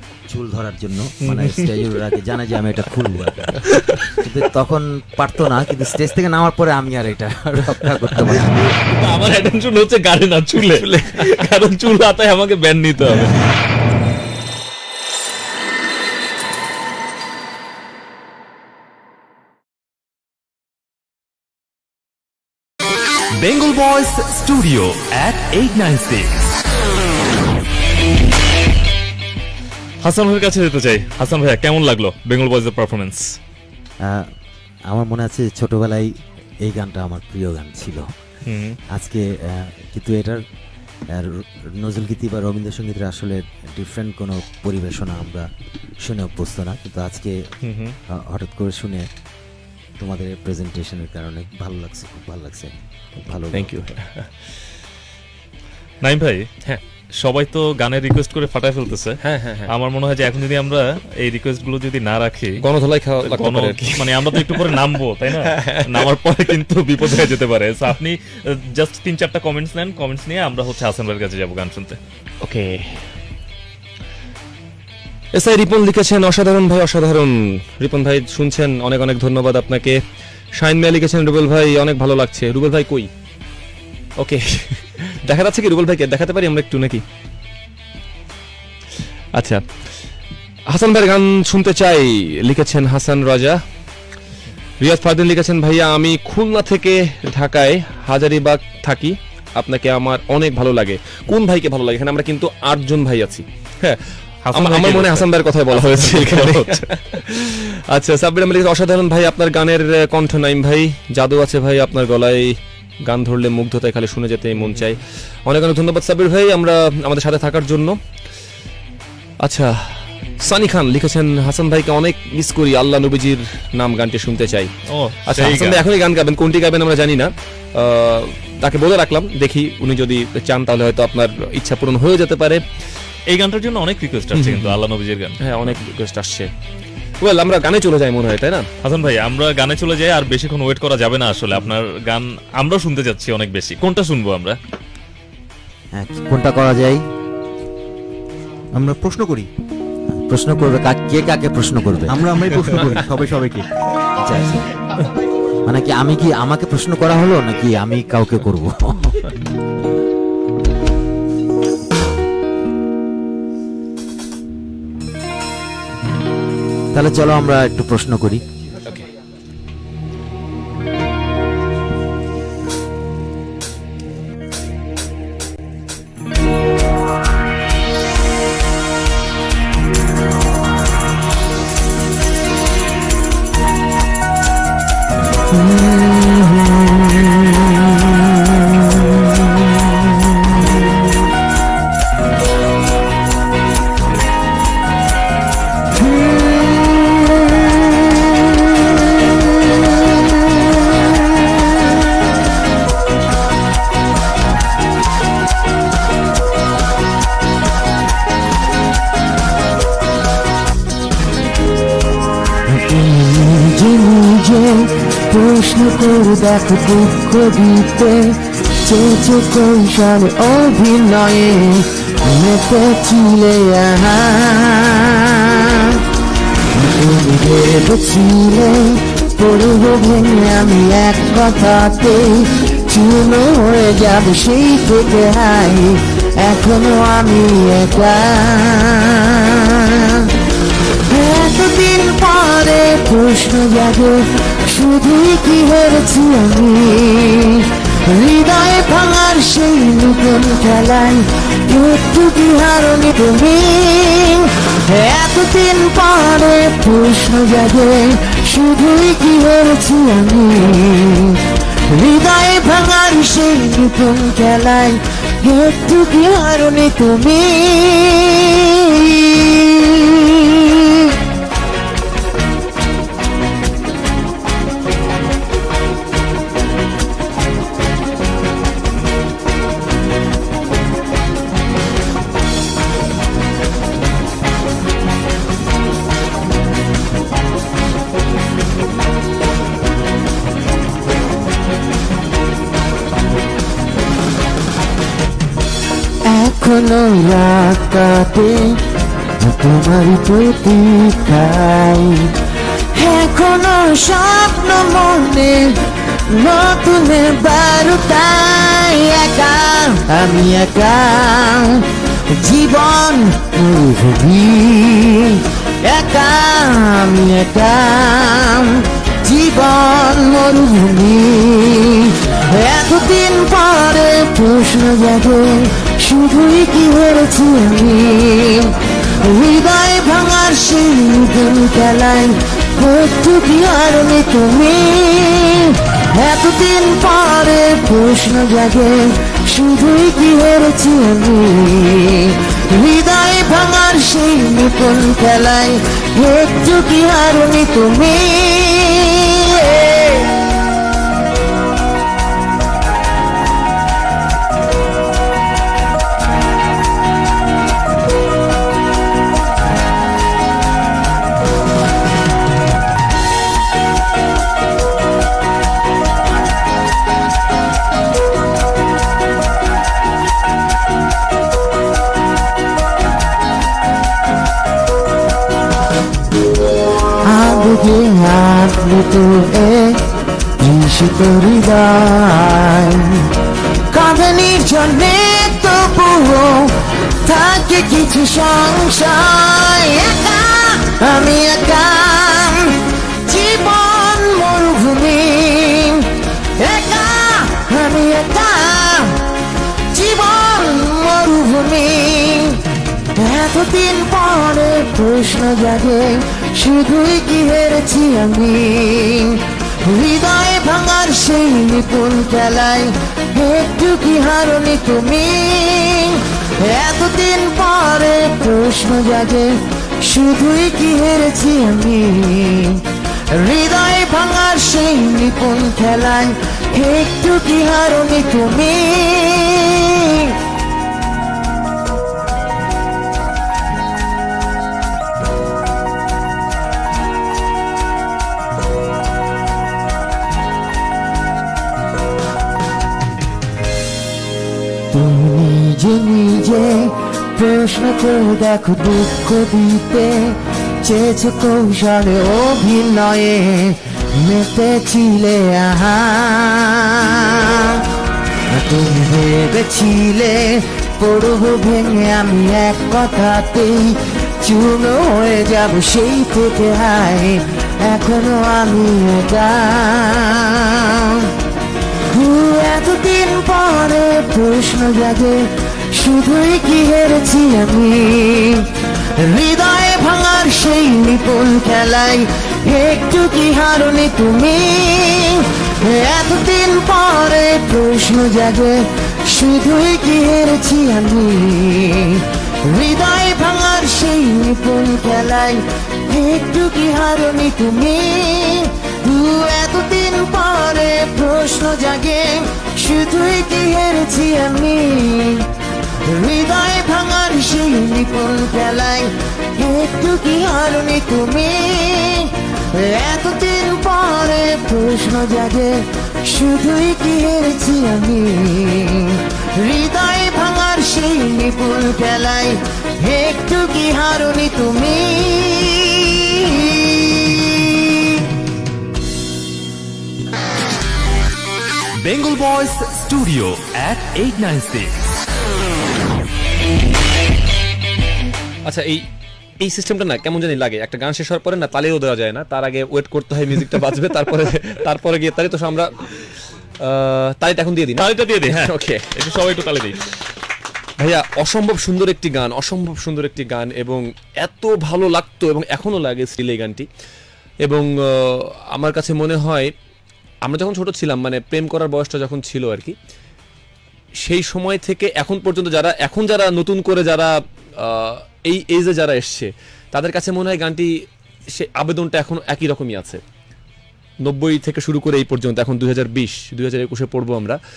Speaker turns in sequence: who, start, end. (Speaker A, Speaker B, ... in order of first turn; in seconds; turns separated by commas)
Speaker A: 0.3-8.7, Speaker B: 1.3-1.7, Speaker B: 8.5-13.5, Speaker C: 10.6-11.4, Speaker D: 23.4-26.2, Speaker E: 24.9-26.4, Speaker B: 30.0-33.4, Speaker A: 34.0-34.3, Speaker A: 34.9-36.1, Speaker A: 36.6-38.0, Speaker B: 38.5-38.8, Speaker A: 38.9-40.4, Speaker A: 41.1-45.5, Speaker A: 46.0-47.4, Speaker B: 47.6-48.0, Speaker A: 48.1-49.1, Speaker A: 50.0-53.8, Speaker C: 53.5-54.3, Speaker B: 56.0-56.5, Speaker B: 57.2-62.6, Speaker C: 59.2-59.7, Speaker C: 62.6-66.1, Speaker B: 63.2-72.0, Speaker C: 72.4-73.0, Speaker C: 75.3-80.0, Speaker C: 80.5-83.1, Speaker C: 84.2-87.0, Speaker C: 89.3-89.6, Speaker C: 90.7-93.6, Speaker C: 94.8-104.0, Speaker B: 104.5-106.9, Speaker C: 104.5-112.5, Speaker C: 113.1-118.0, Speaker C: 119.4-124.7, Speaker B: 124.9-125.8, Speaker C: 125.2-132.6, Speaker B: 133.3-135.4, Speaker C: 134.3-134.8, Speaker C: 135.4-136.5, Speaker C: 137.2-138.7, Speaker B: 138.8-144.6, Speaker A: 146.0-147.0, Speaker E: 148.7-149.5, Speaker A: 150.3-152.6, Speaker E: 152.1-153.7, Speaker A: 154.2-154.6, Speaker A: 155.7-159.2, Speaker A: 166.9-168.4, Speaker F: 185.7-190.8, Speaker F: 196.0-197.4, Speaker F: 212.8-226.0, Speaker F: 226.7-240.3, Speaker F: 240.9-271.2, Speaker F: 296.2-350.5, Speaker F: 377.3-380.1, Speaker F: 380.6-399.3, Speaker F: 399.9-430.4, Speaker F: 444.9-457.9, Speaker F: 458.6-471.4, Speaker F: 472.1-505.5, Speaker F: 506.0-528.2, Speaker D: 532.0-535.0, Speaker C: 538.6-539.1, Speaker C: 539.6-549.1, Speaker B: 548.0-550.0, Speaker C: 551.0-556.9, Speaker C: 557.6-559.7, Speaker C: 560.4-563.0, Speaker C: 564.2-570.9, Speaker C: 571.5-573.2, Speaker C: 574.2-577.6